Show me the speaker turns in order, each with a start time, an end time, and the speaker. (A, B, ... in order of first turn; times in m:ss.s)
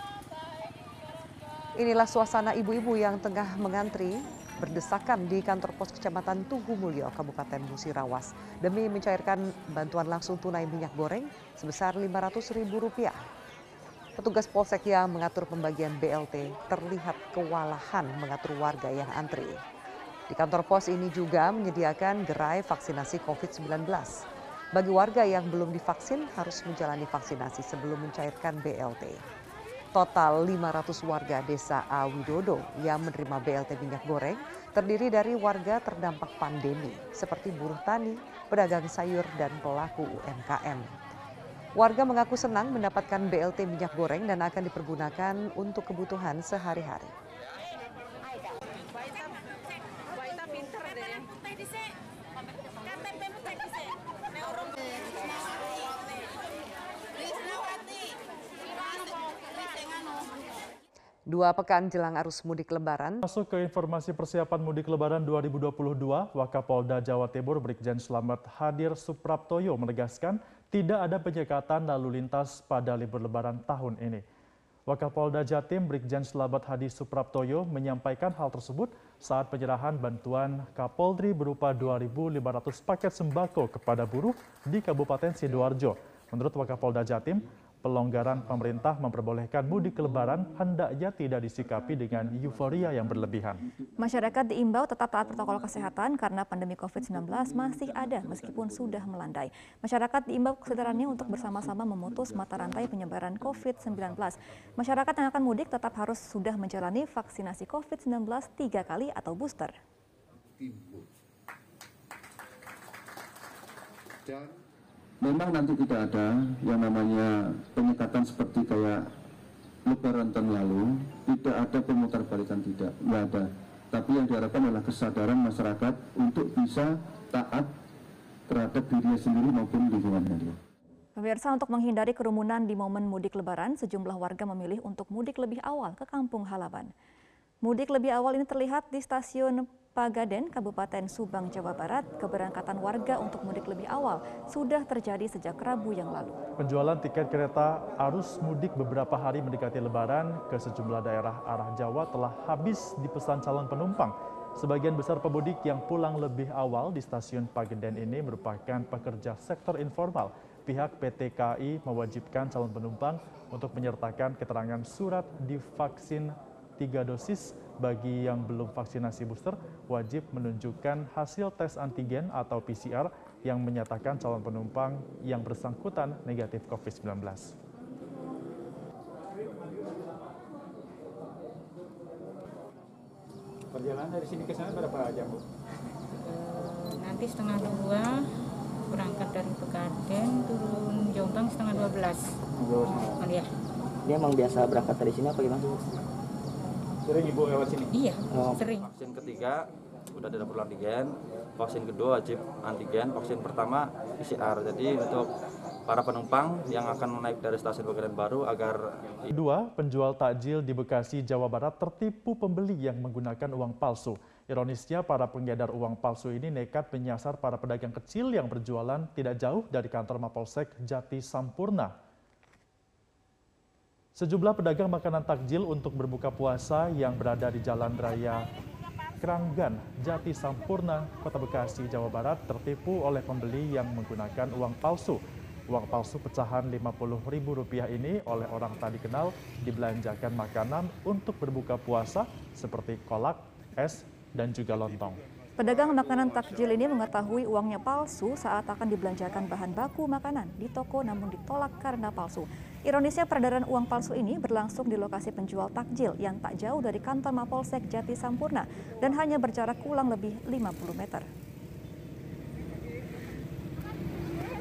0:01.8-0:13.3 A
0:14.2-0:19.6 A
0:20.3-0:29.2 A
0:29.9-0:40.9 A
0:41.7-0:47.1 A
1:01.3-1:03.2 A
1:03.2-1:14.2 B
1:14.9-1:33.6 B
1:34.0-1:49.7 C
1:54.3-1:54.5 D
1:55.2-1:59.0 D
1:59.8-2:07.7 D
2:08.5-2:10.6 D
2:11.2-2:16.9 C
2:17.6-2:26.4 C
2:26.6-2:57.5 B
3:03.8-3:05.4 E
3:06.2-3:08.2 F
3:08.9-3:12.2 F
3:13.1-3:13.4 F
3:14.1-3:15.7 G
3:17.1-3:17.8 E
3:17.9-3:18.8 F
3:18.3-3:18.6 G
3:18.8-3:19.6 H
3:20.2-3:25.2 H
3:25.9-3:29.3 H
3:29.3-3:41.9 B
3:44.2-3:48.5 B
3:49.2-4:05.2 B
4:05.6-4:21.3 C